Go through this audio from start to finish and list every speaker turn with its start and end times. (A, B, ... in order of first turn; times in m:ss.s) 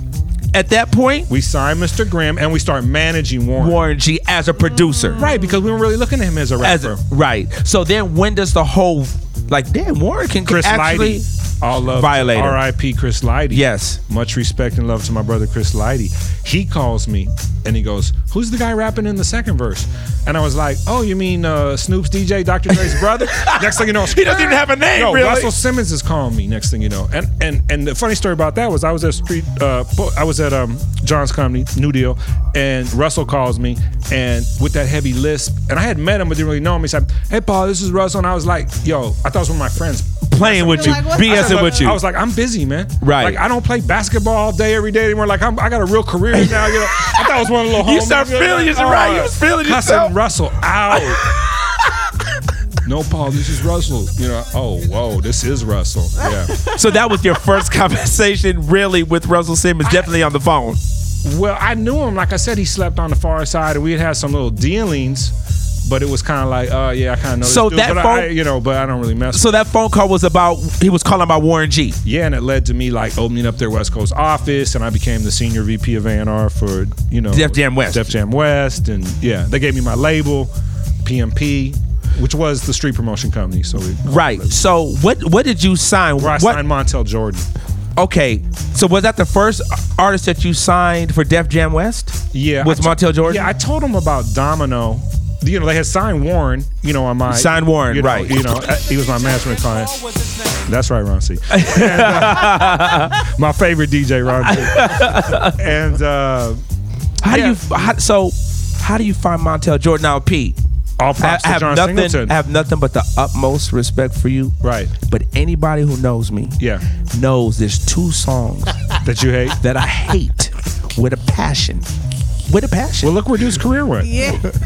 0:00.5-0:01.3 A
0:01.3-0:03.8 B
0:03.6-0:05.3 A
0:04.8-0:05.6 C
0:05.2-0:07.0 B
0:06.6-0:11.2 A
0:10.4-0:51.2 B
0:11.9-0:12.6 A
0:13.5-0:14.0 A
0:23.3-0:25.5 A
0:40.3-0:42.0 A
0:40.6-0:41.9 C
0:43.0-0:43.4 A
0:46.3-0:50.1 A
0:50.9-0:51.7 A
0:52.8-0:56.6 B
0:56.7-1:00.8 A
1:01.2-1:05.3 B
1:05.8-1:09.4 B
1:07.4-1:08.3 A
1:09.3-1:12.0 A
1:12.0-1:20.5 B
1:17.3-1:18.1 A
1:21.0-1:24.5 B
1:24.0-1:26.6 A
1:26.2-1:27.4 B
1:28.0-1:33.5 A
1:32.3-1:40.1 B
1:37.3-1:38.6 A
1:40.6-1:46.6 B
1:41.5-1:43.2 A
1:44.4-1:45.6 A
1:47.2-1:50.6 A
1:47.3-1:47.6 B
1:51.0-1:52.4 B
1:51.2-1:58.7 A
1:54.6-1:54.9 B
1:59.0-1:59.6 B
1:59.6-2:01.9 A
2:02.5-2:03.1 A
2:03.0-2:04.1 B
2:04.0-2:04.5 C